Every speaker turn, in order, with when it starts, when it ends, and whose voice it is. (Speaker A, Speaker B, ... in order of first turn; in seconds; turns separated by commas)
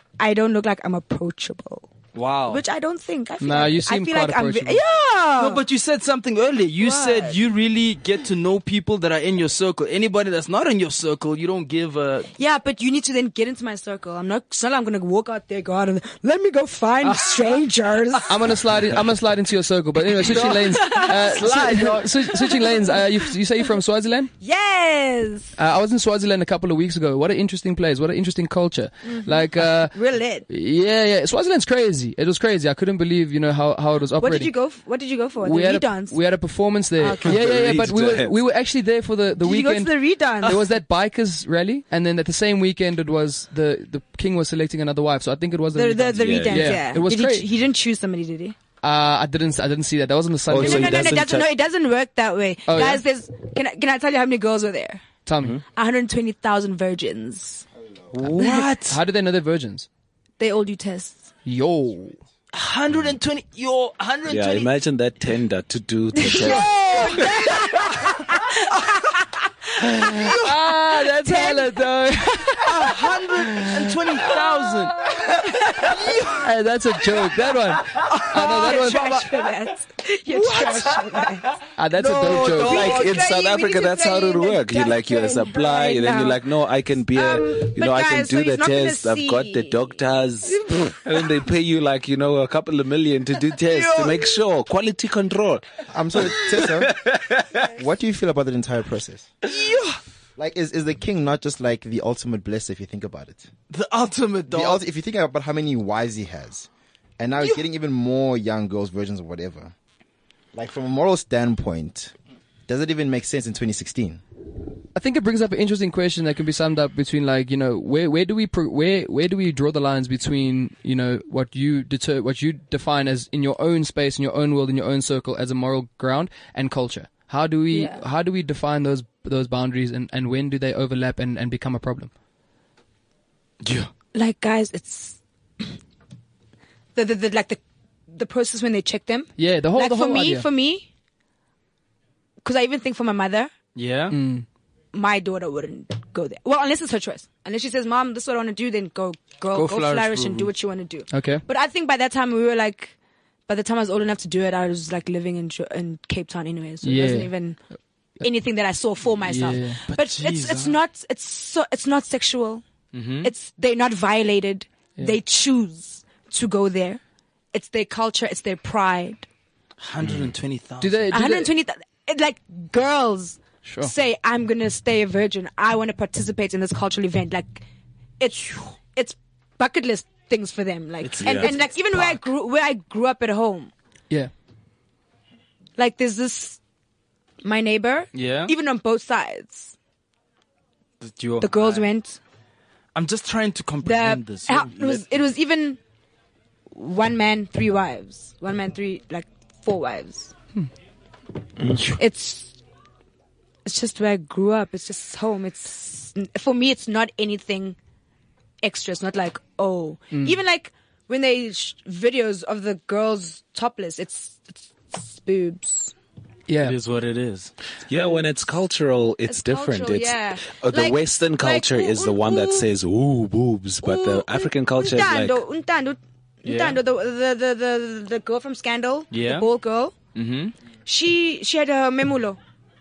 Speaker A: 0.2-1.9, Speaker B: 2.1-2.6, Speaker A: 2.5-5.6, Speaker C: 3.4-4.8, Speaker B: 5.4-12.3, Speaker A: 6.8-7.3, Speaker A: 12.4-18.4, Speaker B: 17.0-17.6, Speaker C: 18.3-24.3, Speaker A: 20.2-23.0, Speaker B: 20.3-20.9, Speaker A: 24.4-25.5, Speaker C: 25.6-29.9, Speaker A: 29.0-30.4, Speaker C: 30.5-34.5, Speaker A: 34.2-36.2, Speaker C: 35.4-47.5, Speaker A: 37.0-37.4, Speaker D: 37.2-38.4, Speaker A: 39.4-40.6, Speaker A: 45.7-48.5, Speaker D: 46.2-46.9, Speaker C: 48.8-51.2, Speaker D: 50.5-51.5, Speaker A: 50.5-55.0, Speaker C: 52.7-53.0, Speaker C: 55.2-55.6, Speaker A: 55.7-57.6, Speaker C: 58.2-59.9, Speaker B: 58.2-59.0, Speaker A: 58.4-58.7, Speaker A: 60.4-61.3, Speaker C: 61.4-62.2, Speaker B: 62.5-64.7, Speaker D: 64.3-67.3, Speaker A: 66.2-70.5, Speaker C: 69.8-72.7, Speaker A: 71.2-73.0, Speaker B: 72.6-75.1, Speaker C: 73.4-74.3, Speaker A: 75.3-76.4, Speaker B: 75.7-76.4, Speaker C: 76.3-79.1, Speaker B: 77.9-79.3, Speaker A: 78.1-81.5, Speaker B: 80.3-81.3, Speaker C: 81.8-82.9, Speaker B: 82.0-83.3, Speaker D: 82.5-95.6, Speaker A: 82.5-86.4, Speaker A: 87.1-91.0, Speaker B: 93.7-94.2, Speaker E: 95.9-97.0, Speaker D: 96.2-97.6, Speaker E: 97.7-99.3, Speaker B: 99.4-100.0, Speaker E: 100.4-103.5, Speaker B: 103.7-104.8, Speaker E: 104.5-109.7, Speaker E: 110.5-112.1, Speaker E: 112.7-114.2, Speaker C: 114.9-132.1, Speaker A: 127.7-128.0, Speaker B: 133.6-133.9, Speaker A: 134.1-135.7, Speaker A: 136.9-140.9, Speaker C: 139.4-140.4, Speaker A: 142.4-143.5, Speaker B: 143.7-144.2, Speaker C: 144.1-144.4, Speaker A: 144.9-152.9, Speaker B: 149.5-150.5, Speaker C: 151.1-151.4, Speaker A: 153.5-157.6, Speaker C: 156.8-157.3, Speaker A: 158.2-162.6, Speaker C: 159.2-159.8, Speaker B: 159.9-160.8, Speaker B: 162.9-163.3, Speaker A: 163.2-167.0, Speaker A: 167.5-169.2, Speaker B: 169.8-171.0, Speaker C: 170.8-171.5, Speaker A: 171.1-177.6, Speaker C: 173.6-173.9, Speaker A: 178.2-183.7, Speaker B: 181.0-182.2, Speaker D: 181.2-181.5, Speaker A: 185.8-186.6, Speaker A: 187.4-189.7, Speaker B: 188.1-188.5, Speaker B: 191.0-191.8, Speaker A: 191.4-192.2, Speaker B: 192.9-195.0, Speaker A: 193.8-195.8, Speaker A: 196.7-200.3, Speaker D: 201.6-202.0, Speaker A: 201.9-202.5, Speaker A: 203.6-207.8, Speaker A: 208.6-215.9, Speaker C: 210.1-210.4, Speaker C: 216.5-216.8, Speaker B: 216.6-217.5, Speaker D: 217.9-225.4, Speaker A: 219.3-222.7, Speaker A: 223.8-229.9, Speaker B: 226.4-226.8, Speaker B: 229.1-229.5, Speaker B: 230.1-230.5, Speaker A: 230.8-232.4